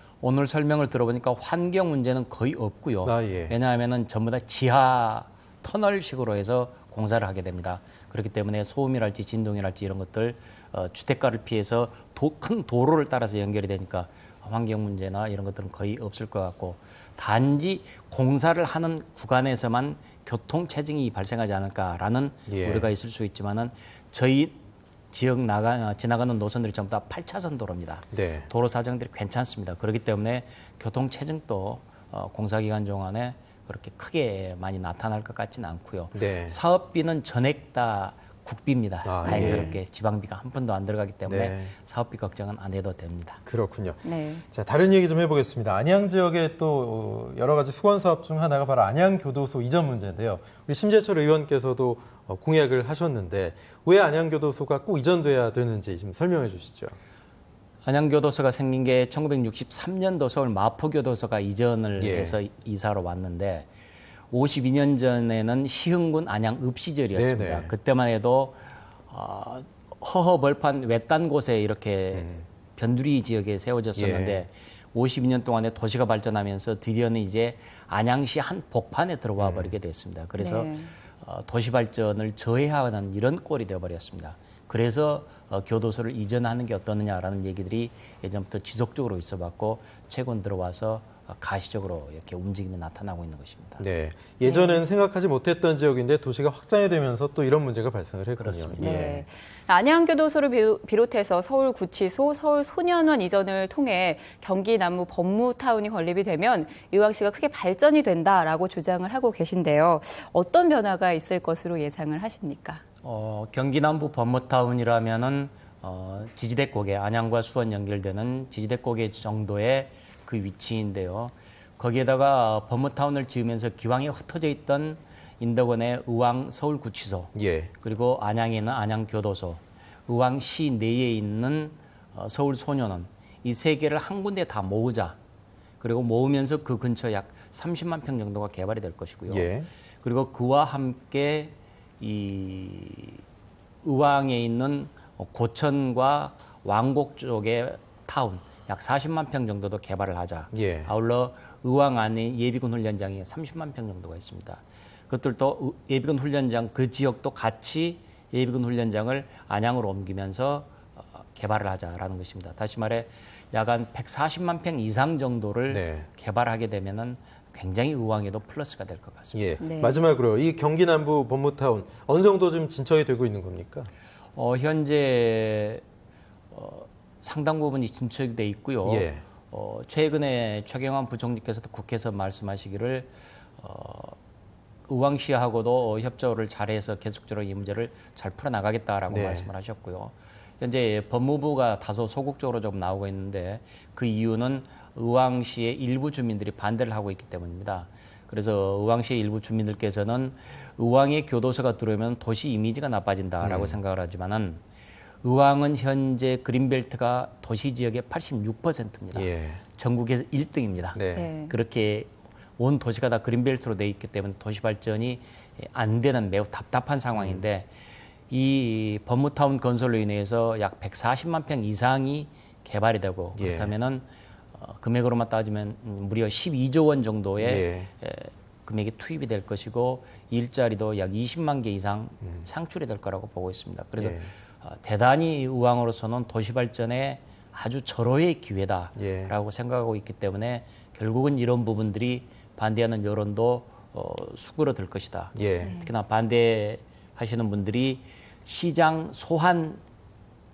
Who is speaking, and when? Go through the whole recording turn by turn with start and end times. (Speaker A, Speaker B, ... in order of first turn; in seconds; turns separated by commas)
Speaker A: 0.2-24.6, Speaker B: 3.0-3.6, Speaker B: 22.5-22.9, Speaker A: 25.1-43.4, Speaker B: 28.1-28.5, Speaker B: 36.1-36.6, Speaker B: 39.0-39.7, Speaker C: 39.2-39.7, Speaker B: 41.3-41.7, Speaker B: 43.5-57.0, Speaker C: 44.0-44.4, Speaker A: 57.8-63.7, Speaker B: 62.0-62.4, Speaker A: 64.3-93.8, Speaker B: 67.2-67.7, Speaker B: 72.2-72.4, Speaker B: 74.0-74.5, Speaker B: 79.4-79.7, Speaker C: 80.4-80.9, Speaker B: 93.8-99.2, Speaker C: 94.4-94.8, Speaker A: 98.4-99.1, Speaker C: 98.8-112.8, Speaker A: 113.0-135.2, Speaker B: 127.3-127.7, Speaker A: 135.8-139.5, Speaker B: 139.3-139.7, Speaker A: 140.0-143.2, Speaker A: 143.8-169.4, Speaker B: 150.5-150.9, Speaker B: 165.7-166.1, Speaker B: 169.3-173.9, Speaker C: 169.6-170.0, Speaker A: 174.4-175.8, Speaker A: 176.5-184.2, Speaker B: 178.8-179.2, Speaker A: 184.9-204.6, Speaker B: 189.1-189.5, Speaker B: 203.4-203.8, Speaker A: 205.2-217.7, Speaker B: 209.1-209.6, Speaker B: 210.9-211.3, Speaker C: 211.1-211.6, Speaker B: 217.2-217.4, Speaker A: 218.3-249.8, Speaker B: 223.4-223.7, Speaker B: 227.4-227.9, Speaker B: 234.0-234.3, Speaker B: 239.0-239.3, Speaker B: 245.4-245.7, Speaker C: 245.6-245.9